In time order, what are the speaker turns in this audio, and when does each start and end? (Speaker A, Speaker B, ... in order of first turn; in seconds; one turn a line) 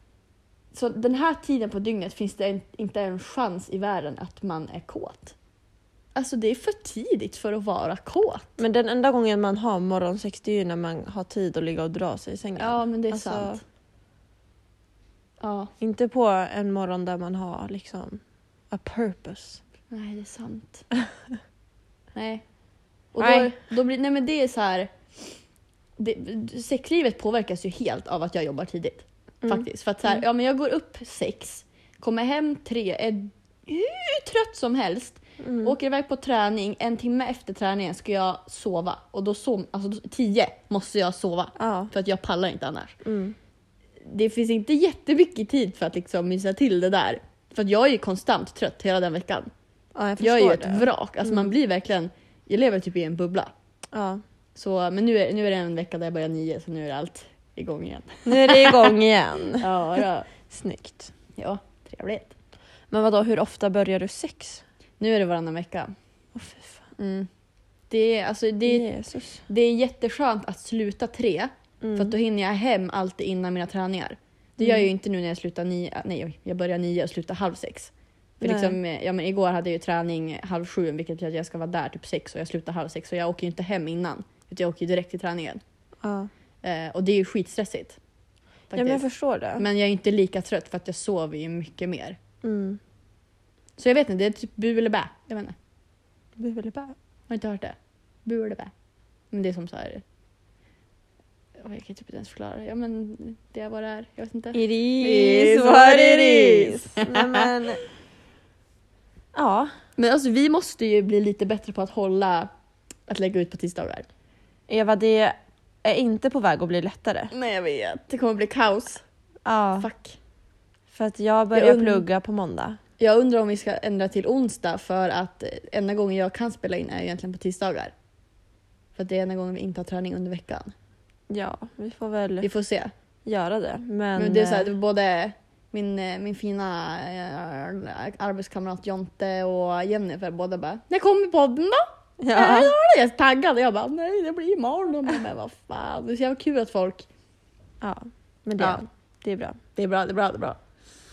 Speaker A: 0.7-5.3
Speaker A: 6.1-8.5
Speaker B: 8.6-13.6
Speaker A: 12.6-13.6
Speaker A: 15.4-15.7
Speaker B: 15.8-19.6
Speaker A: 19.9-20.8
Speaker A: 22.1-22.4
Speaker A: 23.1-24.9
Speaker B: 23.2-23.5
Speaker A: 26.0-42.9
Speaker B: 29.4-30.2
Speaker B: 35.4-35.8
Speaker B: 41.6-41.9
Speaker B: 43.0-43.4
Speaker A: 44.0-49.5
Speaker B: 49.9-51.5
Speaker A: 50.2-53.5
Speaker B: 53.9-54.2
Speaker A: 54.5-58.9
Speaker B: 58.2-61.1
Speaker A: 59.6-60.3
Speaker A: 61.3-62.3
Speaker B: 62.9-64.6
Speaker A: 65.0-65.9
Speaker B: 66.3-66.8
Speaker A: 67.0-67.3
Speaker A: 67.9-68.9
Speaker B: 68.7-69.4
Speaker A: 69.5-85.6
Speaker B: 71.8-72.1
Speaker B: 74.6-74.9
Speaker B: 78.4-78.8
Speaker B: 86.0-86.3
Speaker A: 86.6-88.0
Speaker A: 88.7-89.0
Speaker B: 88.7-89.6
Speaker A: 89.6-92.2
Speaker B: 92.4-92.8
Speaker A: 93.8-95.5
Speaker B: 96.4-96.9
Speaker A: 97.3-98.7
Speaker A: 99.3-100.0
Speaker A: 101.6-107.5
Speaker B: 104.5-107.8
Speaker B: 109.3-109.7
Speaker A: 110.0-112.5
Speaker A: 113.1-114.1
Speaker B: 114.7-117.3
Speaker A: 117.3-119.0
Speaker B: 119.4-119.9
Speaker A: 119.8-120.2
Speaker B: 120.9-122.8
Speaker A: 121.5-122.0
Speaker A: 123.0-127.9
Speaker A: 128.9-130.7
Speaker B: 131.3-132.5
Speaker A: 132.4-132.9
Speaker B: 133.2-134.7
Speaker A: 134.2-147.1
Speaker B: 142.2-142.7
Speaker B: 147.8-149.6
Speaker A: 149.8-150.6